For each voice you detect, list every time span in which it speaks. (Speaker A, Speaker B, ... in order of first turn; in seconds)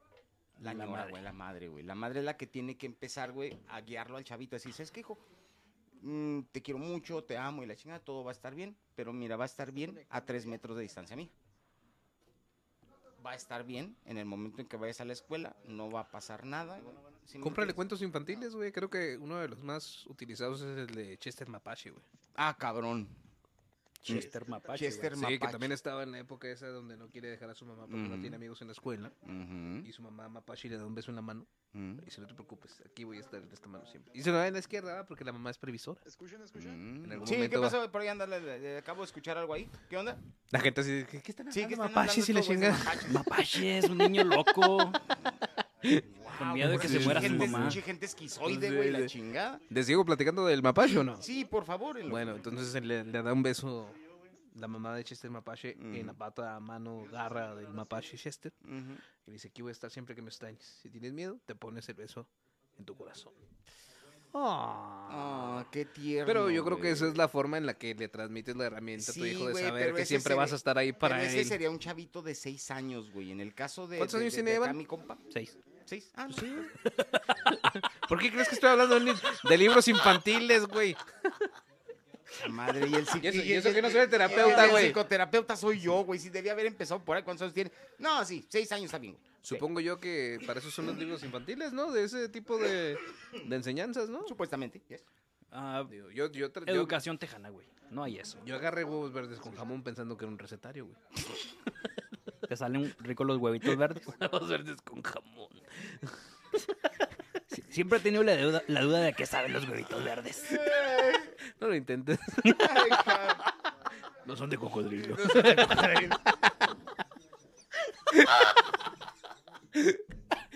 Speaker A: 0.6-5.2, 6.0-11.3, 13.2-17.8, 22.4-23.1, 24.1-25.7, 27.9-28.4, 29.2-29.9, 31.7-32.0, 36.5-40.2, 41.5-43.3, 46.1-49.6, 51.1-52.5, 55.8-56.2, 58.6-59.0, 65.1-67.2, 69.0-75.2, 75.9-76.7, 82.4-89.7, 94.2-95.0, 110.5-111.3, 112.6-113.4, 115.1-116.2
Speaker B: 0.6-1.3, 24.0-25.1, 43.1-45.0, 46.3-47.8, 95.5-95.9, 96.6-98.5, 102.5-104.1, 107.5-110.6
Speaker C: 9.8-10.6, 24.1-24.9, 36.0-37.0
Speaker D: 17.4-22.0, 25.2-29.1, 29.8-31.5, 32.0-36.0, 37.0-37.8, 40.5-44.7, 45.8-47.8, 48.4-49.1, 49.7-51.3, 52.1-54.0, 54.5-58.5, 59.2-63.3, 64.3-65.7, 66.2-71.6, 74.0-74.8, 76.3-81.0, 83.2-85.0, 89.5-94.3, 95.9-97.0, 98.4-101.2, 103.6-106.1, 111.6-113.2, 114.2-116.4, 118.2-118.5